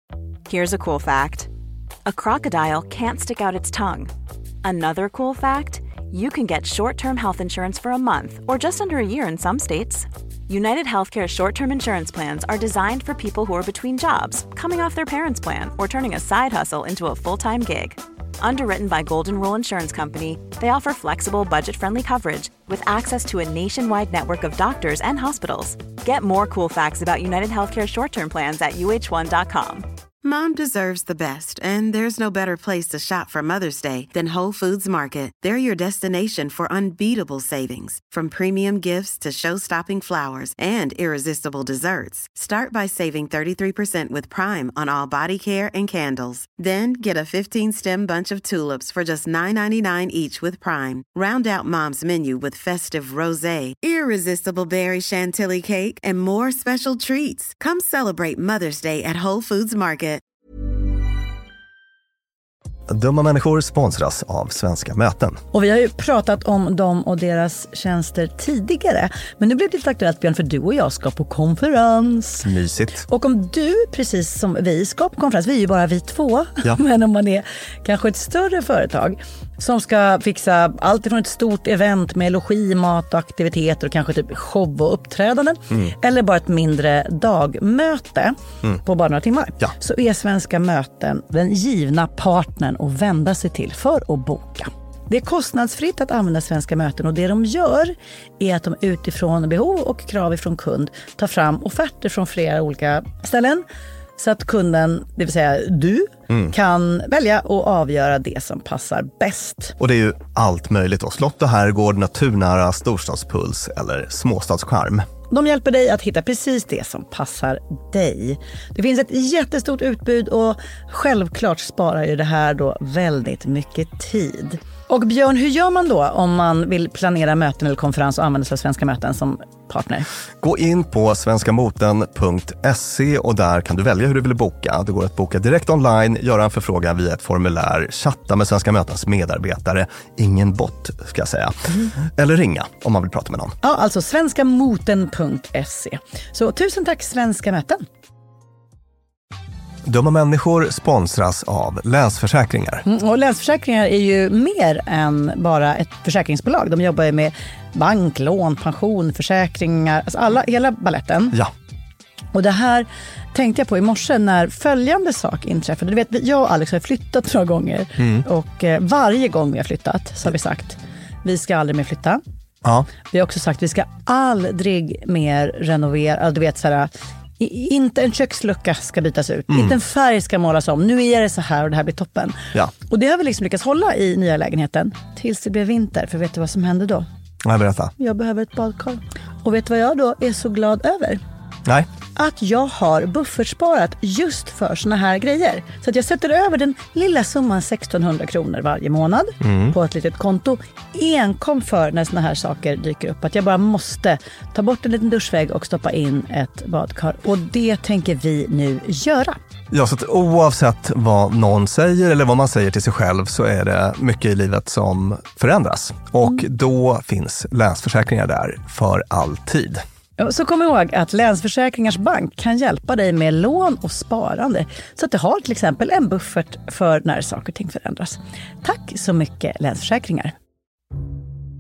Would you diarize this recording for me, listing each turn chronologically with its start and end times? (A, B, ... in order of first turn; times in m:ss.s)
0:00.5-0:01.5 A
0:02.0-0:29.9 A
0:30.2-1:00.2 B
1:02.9-1:05.4 C
1:05.5-1:12.5 D
1:12.4-1:13.0 C
1:13.0-1:43.6 D
1:44.2-1:49.8 D
1:49.8-1:55.1 C
1:55.3-2:10.1 D
2:10.4-2:23.5 C
2:23.6-2:27.8 D
2:29.9-2:32.7 C
2:32.9-2:41.4 D
2:42.3-2:52.2 D
2:53.1-3:07.1 D
3:07.4-3:07.9 C
3:08.0-3:11.2 D
3:12.2-3:29.4 D
3:19.4-3:19.7 C
3:29.7-3:39.8 C
3:40.2-3:50.4 D